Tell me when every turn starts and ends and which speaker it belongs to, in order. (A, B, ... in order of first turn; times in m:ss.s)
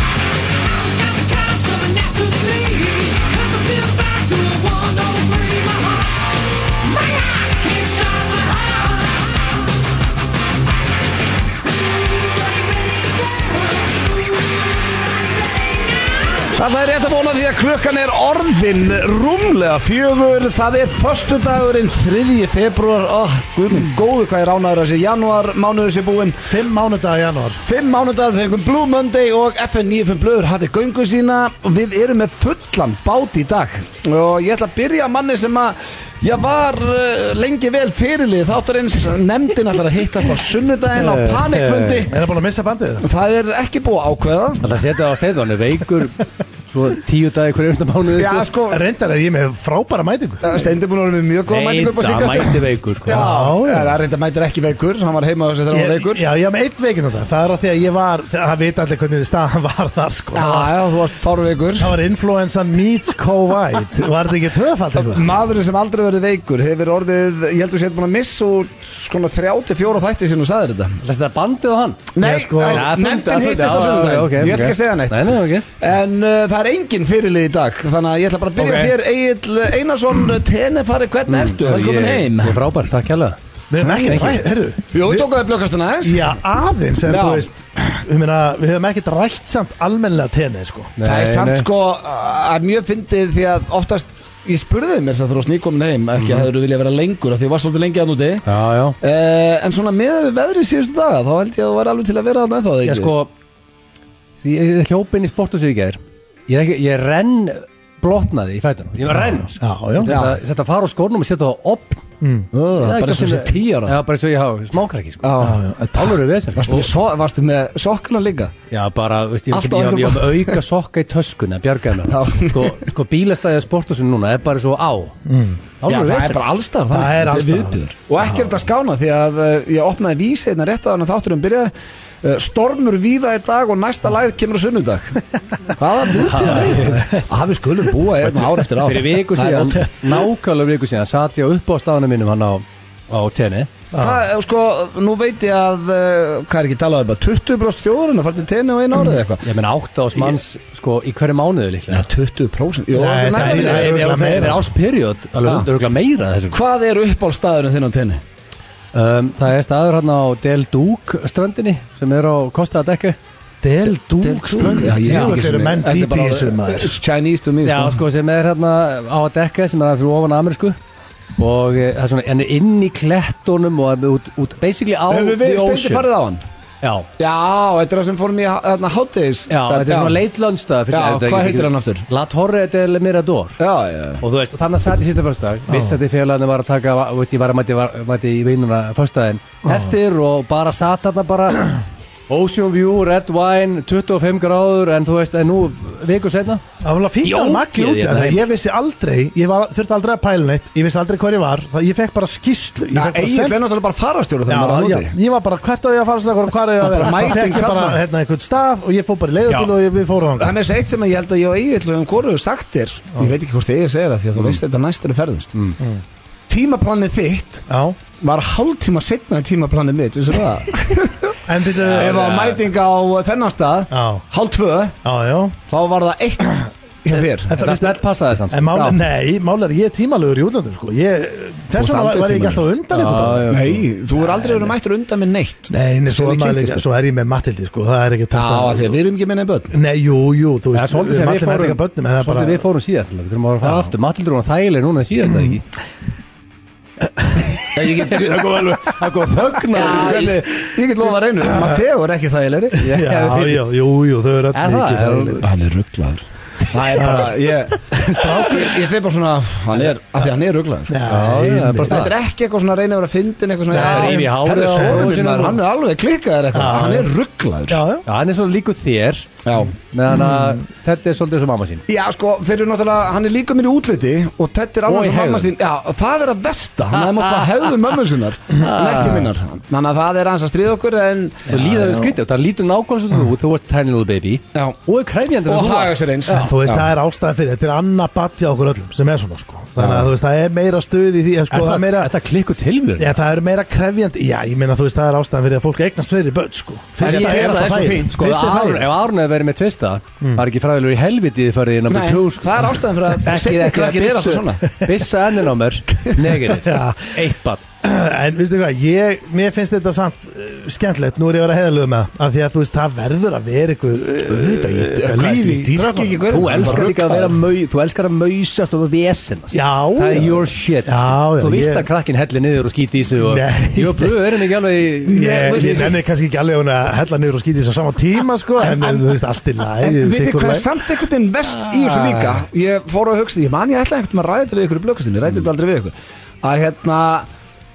0:00.8-0:06.2 A
0:06.8-0:08.8 A
0:16.4-0:26.5 B
0:26.5-0:27.6 C
0:27.6-0:42.1 B
0:41.0-0:42.1 A
0:42.1-0:43.0 C
0:43.0-0:44.6 B
0:44.6-0:48.5 A
0:48.1-0:48.8 B
0:48.7-0:50.4 C
0:50.4-0:56.2 B
0:51.5-0:53.3 A
0:53.1-0:53.9 C
0:55.7-1:00.8 C
1:00.3-1:01.9 B
1:01.8-1:05.3 C
1:05.0-1:11.0 B
1:11.0-1:12.1 A
1:12.1-1:22.6 B
1:12.2-1:12.9 C
1:12.6-1:15.6 A
1:18.6-1:18.9 A
1:21.3-1:23.4 A
1:23.7-1:25.3 C
1:23.9-1:24.4 A
1:24.9-1:26.3 B
1:26.0-1:31.0 C
1:27.1-1:27.5 B
1:31.0-1:31.7 A
1:31.0-1:38.4 B
1:38.4-1:39.0 A
1:39.0-1:43.1 B
1:42.8-1:43.3 A
1:44.4-1:52.0 A
1:49.2-1:50.2 C
1:50.0-1:50.4 B
1:52.2-1:52.5 C
1:52.5-1:54.0 B
1:52.8-1:55.4 A
1:55.2-1:55.6 B
1:55.4-1:56.2 C
1:56.0-1:56.9 A
1:56.6-1:58.5 B
1:58.7-2:05.1 A
1:59.5-2:00.6 B
2:02.1-2:02.8 B
2:05.2-2:05.6 C
2:05.8-2:06.5 A
2:05.9-2:19.8 B
2:06.9-2:07.8 C
2:16.2-2:17.1 A
2:16.7-2:17.2 C
2:18.2-2:23.7 A
2:19.8-2:20.1 C
2:23.9-2:24.2 C
2:24.0-2:29.4 B
2:29.4-2:32.0 A
2:31.9-2:34.6 B
2:32.9-2:34.7 C
2:33.3-2:36.6 A
2:35.4-2:35.7 B
2:36.5-2:38.2 B
2:38.9-2:43.2 A
2:43.6-2:47.0 C
2:43.8-2:48.0 B
2:44.6-2:45.4 A
2:47.6-2:50.8 A
2:51.4-2:56.1 A
2:55.1-2:56.4 B
2:56.8-2:57.1 A
2:57.2-3:00.2 B
2:59.5-3:03.6 A
3:00.9-3:02.0 B
3:03.6-3:04.2 B
3:04.2-3:16.6 A
3:05.7-3:06.0 C
3:16.8-3:23.6 C
3:17.2-3:18.4 A
3:22.9-3:25.1 B
3:24.5-3:30.5 C
3:26.8-3:28.0 B
3:29.5-3:29.7 A
3:30.4-3:35.5 B
3:36.5-3:37.6 B
3:37.7-3:38.0 C
3:38.2-3:45.0 B
3:41.4-3:42.3 C
3:41.8-3:42.6 A
3:43.9-3:44.2 C
3:45.0-3:45.6 C
3:45.7-3:47.6 B
3:47.5-3:49.0 A
3:47.6-3:47.9 C
3:48.5-3:53.5 C
3:51.7-3:52.6 B
3:52.9-3:53.8 A
3:53.5-3:56.8 B
3:54.2-3:54.7 C
3:55.7-3:59.0 C
3:58.3-3:59.7 B
3:59.7-4:02.6 C
4:00.7-4:05.6 A
4:03.6-4:03.9 C
4:07.7-4:08.4 B
4:07.8-4:10.8 A
4:09.7-4:12.8 B
4:11.5-4:11.8 C
4:12.8-4:13.6 A
4:12.8-4:15.5 C
4:14.5-4:15.4 A
4:15.4-4:21.0 B
4:16.9-4:18.8 C
4:20.9-4:22.0 C
4:21.1-4:22.1 A
4:21.8-4:27.8 B
4:23.7-4:25.3 C
4:23.7-4:25.6 A
4:26.5-4:27.1 C
4:27.7-4:28.0 C
4:28.0-4:29.3 A
4:29.4-4:29.7 B
4:29.8-4:31.8 A
4:30.1-4:30.6 C
4:31.9-4:41.5 B
4:34.9-4:35.5 A
4:37.1-4:37.7 A
4:38.5-4:39.3 A
4:41.5-4:46.5 A
4:41.5-4:42.1 C
4:45.4-4:46.9 B
4:46.3-4:52.1 C
4:51.5-4:53.2 A
4:53.0-4:58.9 C
4:57.0-4:58.2 B
4:57.0-5:07.6 A
5:01.9-5:04.6 B
5:06.5-5:07.2 C
5:07.8-5:16.8 C
5:14.2-5:17.4 B
5:16.3-5:25.7 A
5:19.5-5:21.9 C
5:23.2-5:24.1 C
5:25.0-5:26.0 B
5:25.1-5:30.7 C
5:28.6-5:29.0 B
5:29.8-5:37.3 B
5:31.6-5:32.4 A